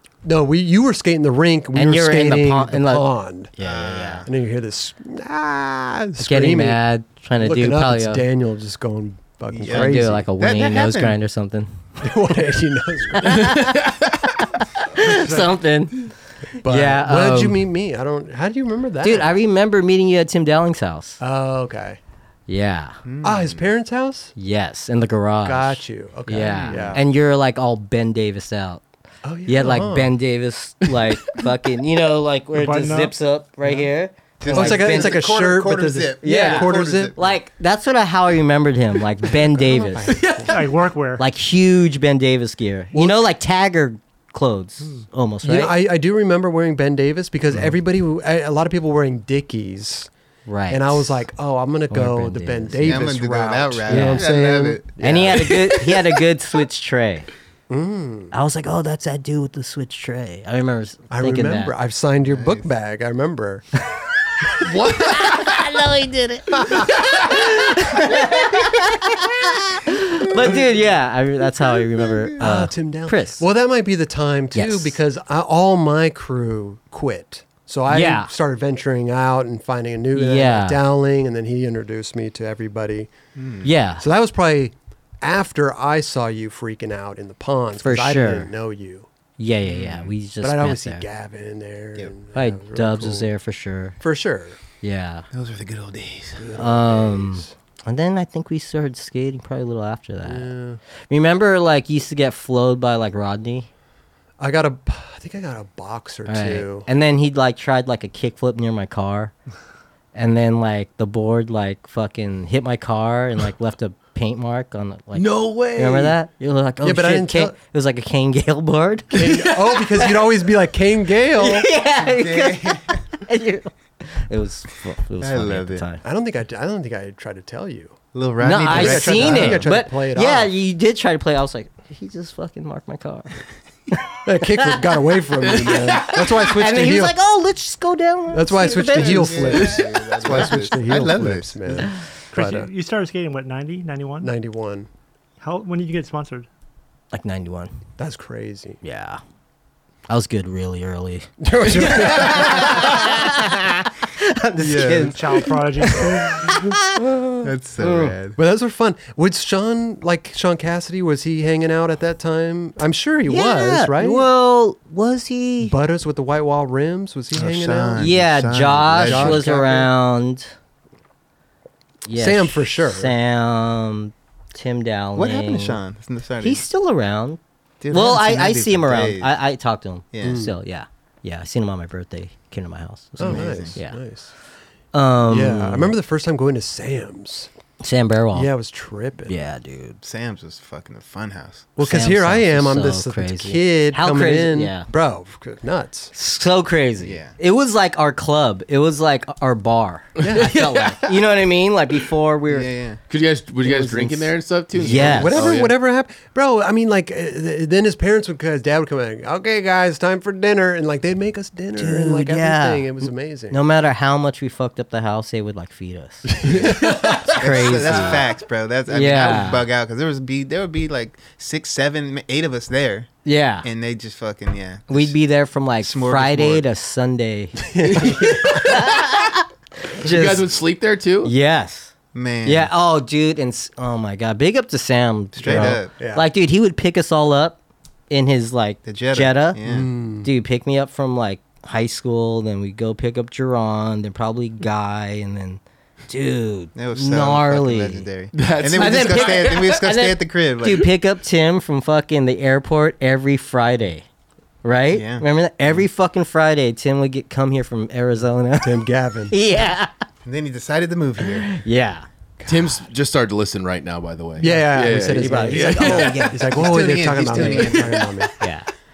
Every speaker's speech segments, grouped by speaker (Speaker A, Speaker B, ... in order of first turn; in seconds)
Speaker A: 0.2-3.5, 4.2-6.8, 7.4-10.2, 12.0-13.6, 16.6-19.3, 21.2-22.0, 23.2-24.3, 25.4-27.0, 29.2-30.1, 34.5-37.1, 39.3-40.6, 42.9-43.2, 45.4-50.1, 50.7-56.1, 57.7-58.3, 61.1-63.6, 72.4-83.1, 84.0-89.1, 90.4-93.3, 94.0-94.6, 96.4-97.5, 100.2-100.8, 104.4-106.9, 116.8-117.5, 119.1-121.7, 126.0-128.0, 128.6-130.5, 134.2-137.2, 138.3-142.7, 144.2-144.9, 148.0-148.8, 151.4-153.1, 154.6-157.5, 158.4-164.3, 165.6-168.1, 168.9-169.9, 172.1-173.1, 180.2-180.5, 183.2-184.3, 185.3-187.5, 188.3-189.3, 191.8-196.1, 200.2-200.6, 204.9-213.6, 216.3-218.2, 227.7-228.8, 235.4-236.3, 239.6-240.3, 258.6-259.4, 262.4-262.8, 264.4-268.3
Speaker B: 1.7-3.1, 3.6-4.2, 6.2-8.2, 9.7-11.7, 13.2-13.9, 14.8-17.6, 19.0-21.2, 22.5-23.0, 24.4-28.8, 29.5-35.2, 36.2-40.1, 41.2-45.8, 47.5-47.8, 50.5-51.2, 51.9-53.0, 53.9-54.3, 55.0-57.3, 58.3-61.7, 64.6-73.5, 74.5-75.0, 77.9-78.3, 80.1-80.8, 83.6-84.0, 87.8-88.5, 89.4-91.0, 92.3-94.0, 94.8-95.3, 96.5-100.5, 101.1-103.7, 106.2-109.3, 110.1-120.2, 121.3-126.0, 128.4-133.4, 133.9-139.8, 140.3-140.7, 147.1-147.7, 148.8-149.2, 150.1-157.0, 157.8-158.2, 163.3-165.8, 168.0-170.5, 172.1-175.8, 176.4-177.4, 177.9-184.0, 184.9-185.9, 187.8-188.5, 189.3-190.0, 191.8-194.9, 196.1-202.7, 203.6-205.5, 211.8-218.3, 218.9-219.7, 223.2-223.7, 224.9-230.5, 231.2-231.9, 232.4-237.6, 238.1-239.6, 240.2-248.1, 248.8-254.1, 254.6-259.9, 261.3-262.1, 265.0-267.8, 268.4-268.7
Speaker C: 3.6-4.3, 9.5-11.2, 23.0-23.7, 26.6-27.0, 34.4-37.4, 52.8-55.5, 62.2-62.7, 70.4-70.7, 71.8-72.4, 83.4-83.7, 89.7-90.1, 95.3-96.6, 122.0-123.1, 125.2-125.9, 128.1-129.7, 138.7-141.9, 157.4-158.4, 167.3-169.5, 175.2-176.6, 177.8-179.3, 180.1-180.5, 183.2-183.8, 190.0-191.7, 197.0-197.4, 202.5-203.0, 204.8-205.2, 217.1-223.1, 223.6-225.2, 225.8-226.6, 232.1-232.7, 235.4-235.9, 238.8-239.9, 246.8-250.9, 254.9-255.3, 260.2-261.6, 265.8-268.1
Speaker D: 13.3-14.1, 40.1-40.6, 64.6-65.6, 66.9-67.4, 115.1-116.2, 135.4-136.2, 139.5-139.8, 151.8-152.6, 200.2-201.2, 203.1-205.8, 216.7-217.2, 227.9-228.8, 230.0-231.3, 248.3-249.8, 262.4-266.4, 267.5-268.3
Speaker E: 32.5-33.1, 40.5-41.2, 142.3-144.3, 145.4-146.5, 155.0-156.4